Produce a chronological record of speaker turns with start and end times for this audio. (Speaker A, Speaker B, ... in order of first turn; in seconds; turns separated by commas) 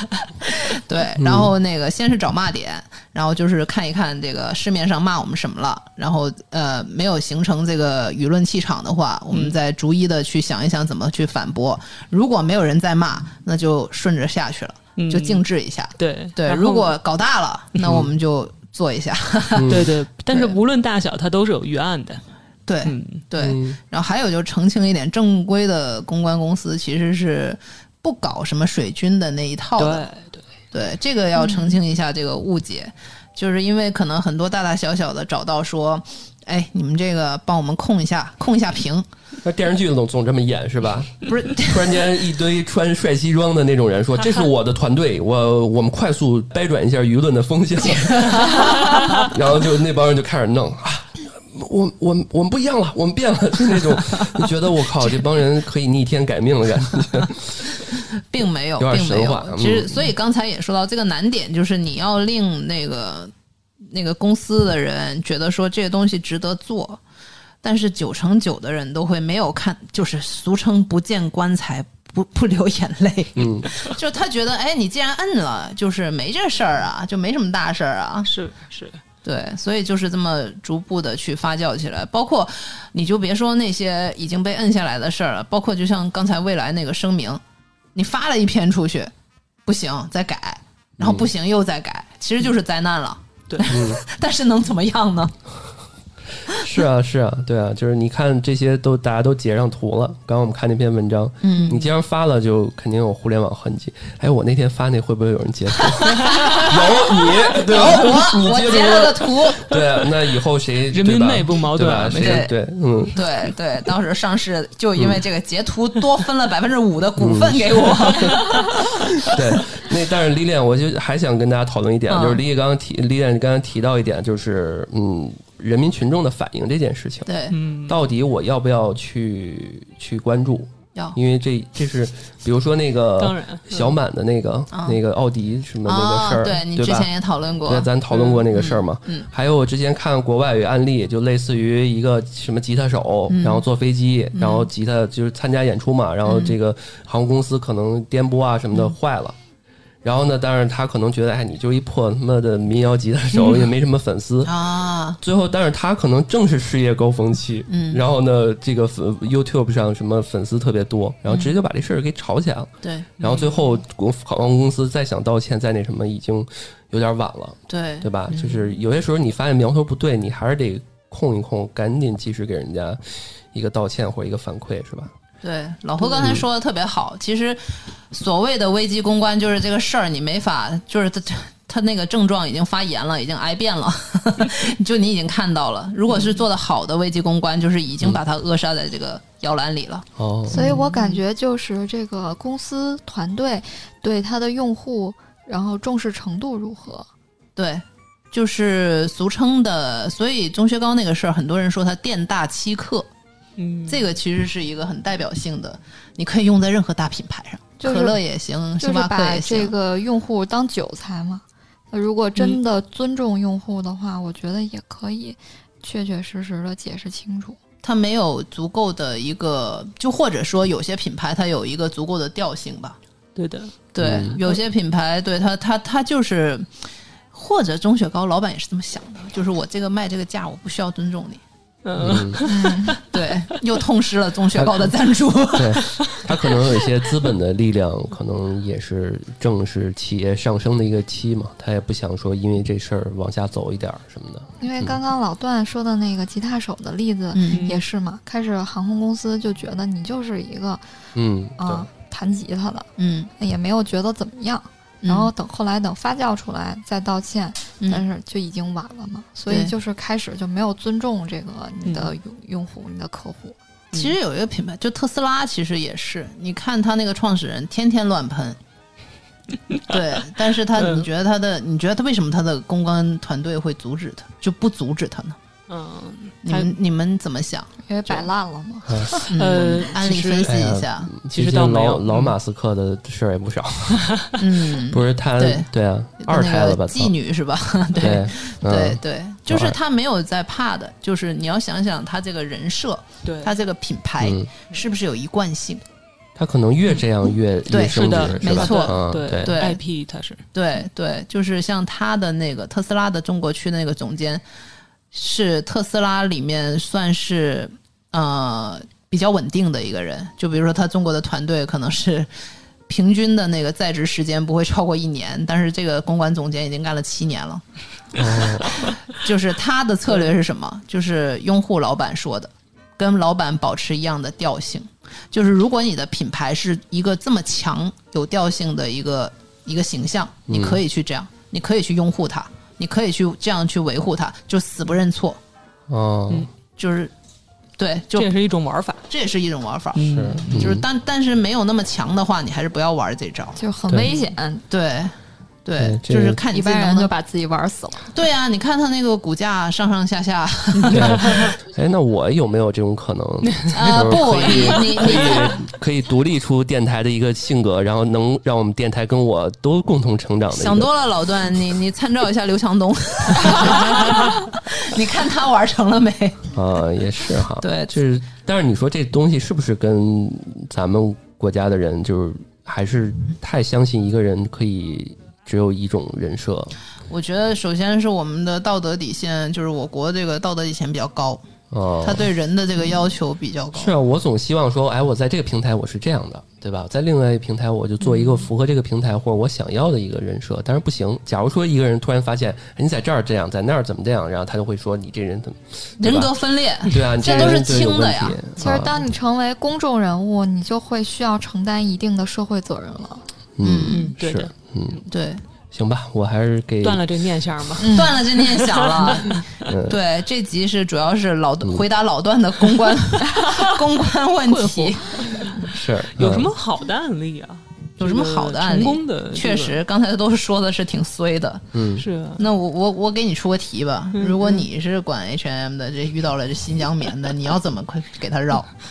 Speaker A: 0.4-20.6, Speaker B: 1.2-1.5, Speaker C: 9.3-9.6, Speaker C: 15.0-15.4, Speaker C: 16.0-16.9, Speaker B: 19.5-19.9, Speaker C: 19.7-22.2, Speaker A: 22.7-30.1, Speaker C: 22.8-23.2, Speaker B: 23.4-23.8, Speaker C: 29.8-30.4, Speaker A: 30.7-39.0, Speaker D: 31.4-31.7, Speaker B: 39.4-57.8, Speaker A: 41.2-42.0, Speaker A: 58.3-63.3, Speaker B: 58.8-60.1, Speaker A: 63.9-67.0, Speaker A: 67.6-78.3, Speaker B: 73.3-73.7, Speaker C: 78.2-79.0, Speaker A: 79.2-87.4, Speaker A: 87.9-89.1, Speaker A: 89.7-95.3, Speaker B: 91.0-91.3, Speaker B: 93.7-94.0, Speaker B: 96.5-113.2, Speaker A: 101.4-101.8, Speaker C: 101.5-101.9, Speaker C: 106.2-106.7, Speaker A: 106.2-106.6, Speaker A: 107.5-109.7, Speaker C: 110.9-112.5, Speaker A: 112.2-112.5, Speaker A: 113.1-118.6, Speaker B: 115.0-115.2, Speaker B: 117.2-118.5, Speaker B: 119.2-127.3, Speaker A: 122.1-122.4, Speaker A: 127.3-127.5, Speaker C: 127.5-128.0, Speaker B: 127.9-137.1, Speaker C: 133.2-134.0, Speaker A: 134.7-135.0, Speaker A: 135.8-137.9, Speaker B: 137.7-149.4, Speaker C: 138.2-138.4, Speaker A: 138.5-139.3, Speaker A: 143.3-143.6, Speaker A: 144.3-144.7, Speaker A: 146.2-146.5, Speaker B: 150.0-173.0, Speaker A: 154.4-155.2, Speaker A: 157.7-158.0, Speaker A: 162.8-163.1, Speaker C: 163.2-163.5, Speaker A: 167.7-168.6, Speaker B: 173.5-175.1, Speaker A: 175.4-191.2, Speaker B: 176.1-176.4, Speaker B: 190.2-190.6, Speaker D: 190.5-197.1, Speaker A: 197.6-203.1, Speaker C: 203.6-204.1, Speaker A: 203.9-209.7, Speaker D: 207.8-208.2, Speaker D: 208.8-217.6, Speaker A: 217.8-223.0, Speaker C: 223.3-223.7, Speaker A: 223.9-226.7, Speaker B: 224.0-224.4, Speaker A: 227.3-231.4, Speaker C: 231.8-233.2, Speaker B: 232.0-232.4, Speaker D: 232.4-233.0, Speaker A: 233.1-235.8, Speaker B: 234.5-234.9, Speaker B: 235.5-245.0, Speaker D: 244.6-250.8, Speaker A: 247.3-247.6, Speaker C: 247.5-247.8, Speaker B: 251.1-251.9, Speaker D: 251.6-263.6, Speaker A: 253.0-253.3, Speaker A: 255.0-255.3, Speaker C: 261.8-262.1, Speaker A: 263.9-268.6, Speaker A: 269.9-275.4, Speaker C: 270.7-271.1, Speaker C: 275.7-276.7, Speaker A: 276.4-278.3, Speaker D: 277.8-279.3, Speaker B: 278.9-279.1, Speaker A: 279.3-281.1, Speaker C: 279.3-280.6, Speaker B: 280.4-287.1, Speaker C: 281.3-282.3, Speaker A: 284.4-285.7, Speaker A: 286.2-295.8, Speaker B: 288.0-289.8, Speaker C: 293.2-293.5, Speaker B: 294.2-294.5, Speaker B: 296.4-299.6, Speaker A: 297.7-299.8, Speaker C: 297.9-300.4, Speaker A: 300.5-304.4, Speaker A: 305.1-312.3, Speaker A: 312.9-317.6, Speaker B: 318.2-318.8, Speaker A: 318.2-335.4, Speaker B: 330.5-330.8, Speaker B: 335.9-336.5, Speaker A: 336.8-337.1, Speaker A: 337.8-338.3, Speaker C: 338.1-339.0, Speaker A: 339.1-343.6, Speaker C: 339.9-340.7, Speaker B: 340.0-340.8, Speaker D: 343.6-344.6, Speaker A: 344.7-345.1, Speaker A: 345.6-347.1, Speaker B: 345.8-346.4, Speaker D: 346.5-348.1, Speaker A: 348.1-351.5, Speaker C: 350.8-351.5, Speaker B: 350.9-360.9, Speaker C: 353.5-355.5, Speaker A: 353.7-355.6, Speaker A: 360.5-366.4, Speaker B: 366.5-376.7, Speaker A: 367.6-367.9, Speaker A: 377.1-381.4, Speaker B: 381.7-382.2, Speaker A: 382.0-383.9, Speaker B: 383.7-396.3, Speaker A: 396.0-398.4, Speaker B: 396.8-399.0, Speaker C: 396.9-397.6, Speaker D: 398.6-403.2, Speaker B: 403.6-405.0, Speaker A: 403.6-404.1, Speaker C: 403.9-405.0, Speaker A: 405.1-405.4, Speaker B: 405.7-407.0, Speaker C: 406.8-409.4, Speaker D: 407.8-408.2, Speaker A: 407.9-415.4, Speaker B: 409.6-410.0, Speaker C: 414.5-419.8, Speaker B: 415.7-416.5, Speaker A: 418.0-421.6, Speaker B: 421.7-422.1, Speaker C: 422.0-422.4, Speaker A: 422.4-428.7, Speaker C: 424.1-424.7